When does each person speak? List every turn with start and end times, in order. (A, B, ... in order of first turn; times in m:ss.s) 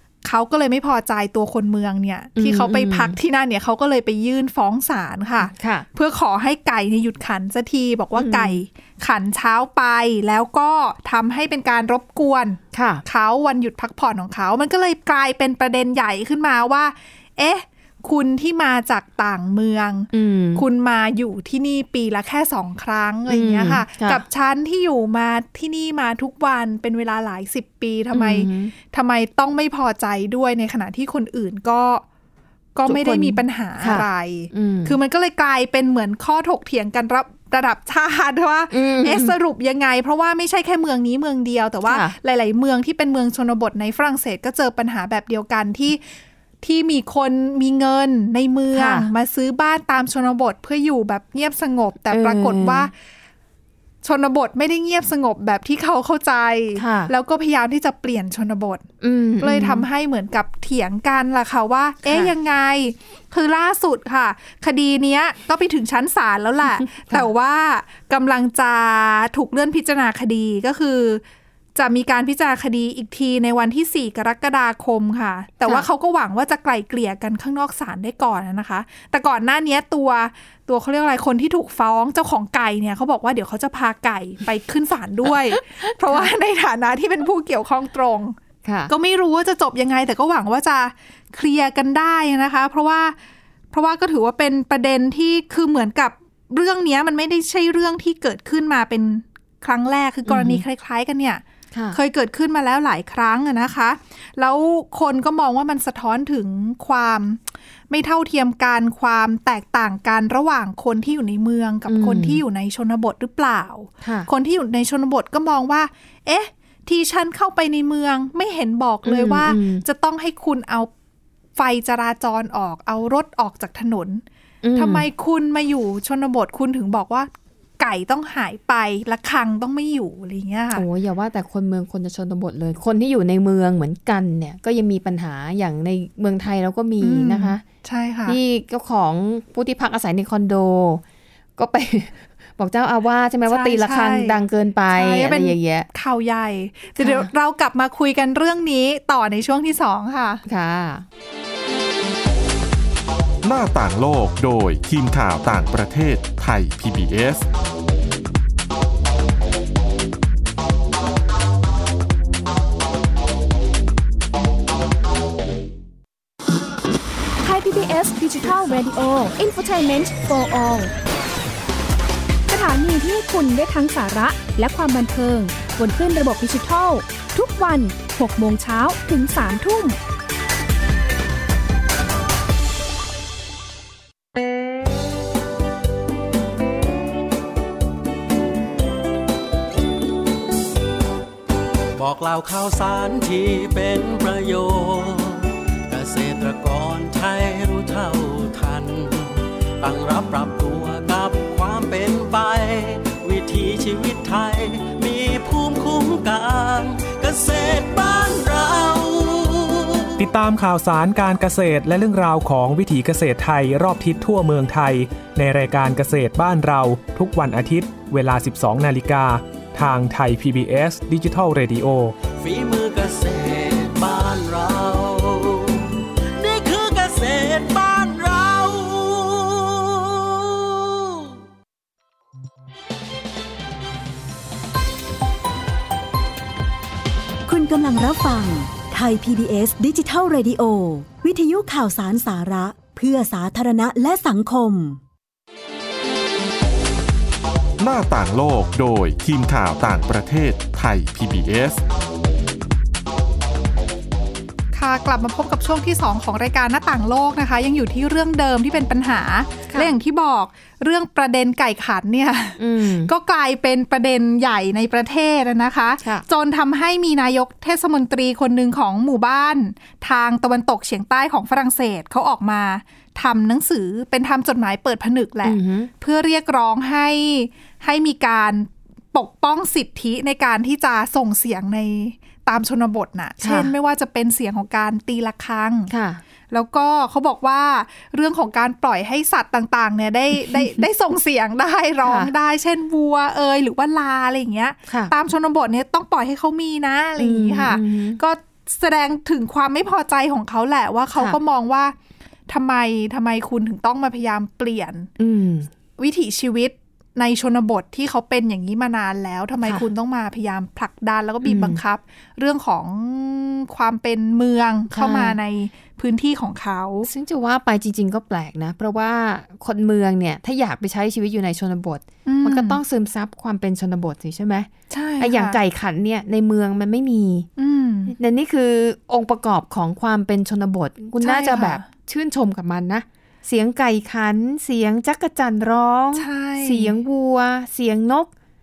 0:00.2-0:32.0 A
0:02.4-0:03.2 B
0:05.4-0:05.9 B
0:08.1-0:08.6 B
0:12.7-0:13.0 B
0:20.1-0:20.6 B
0:23.3-0:24.2 B
0:28.1-0:28.7 B
0:32.7-0:46.0 A
0:32.8-0:35.0 B
0:38.7-0:39.3 B
0:41.8-0:42.1 B
0:46.6-0:52.9 A
0:48.7-0:49.1 B
0:52.1-0:52.9 B
0:54.0-0:58.8 A
0:56.7-0:57.1 B
0:59.0-0:59.9 B
0:59.4-1:11.2 A
1:02.0-1:02.3 B
1:06.8-1:07.3 B
1:11.7-1:28.4 A
1:26.0-1:26.3 B
1:28.6-1:28.9 B
1:28.9-1:33.2 A
1:33.7-2:00.9 A
1:40.2-1:40.6 B
1:41.7-1:42.0 B
1:51.9-1:52.4 B
1:54.0-1:54.3 B
1:59.0-1:59.8 B
2:01.6-2:04.2 A
2:04.6-2:05.0 B
2:04.7-2:10.8 A
2:10.7-2:17.6 B
2:17.0-2:18.4 A
2:18.2-2:21.0 B
2:21.6-2:25.9 B
2:23.5-2:30.4 A
2:27.0-2:27.3 B
2:30.4-2:31.0 B
2:33.4-2:37.4 C
2:47.4-2:50.9 D
2:52.5-3:00.0 D
3:12.0-3:30.2 E
3:30.2-3:42.2 F
3:42.4-3:51.3 E
3:57.4-4:05.0 G
4:07.8-4:11.8 C
4:14.7-4:45.9 A
4:22.6-4:23.1 B
4:35.4-4:35.9 B
4:43.4-4:43.7 B
4:45.9-4:46.2 B
4:46.5-5:02.0 A
4:50.4-4:50.8 B
4:52.0-4:52.3 B
4:54.9-4:55.1 B
4:57.2-4:58.2 B
5:02.5-5:05.1 A
5:05.2-5:05.7 B
5:06.0-5:17.1 A
5:11.4-5:11.8 B
5:14.9-5:15.4 B
5:17.0-5:27.5 B
5:22.2-5:22.8 A
5:24.9-5:25.6 A
5:27.6-5:28.1 A
5:28.1-5:38.3 B
5:31.2-5:31.8 A
5:36.1-5:37.0 A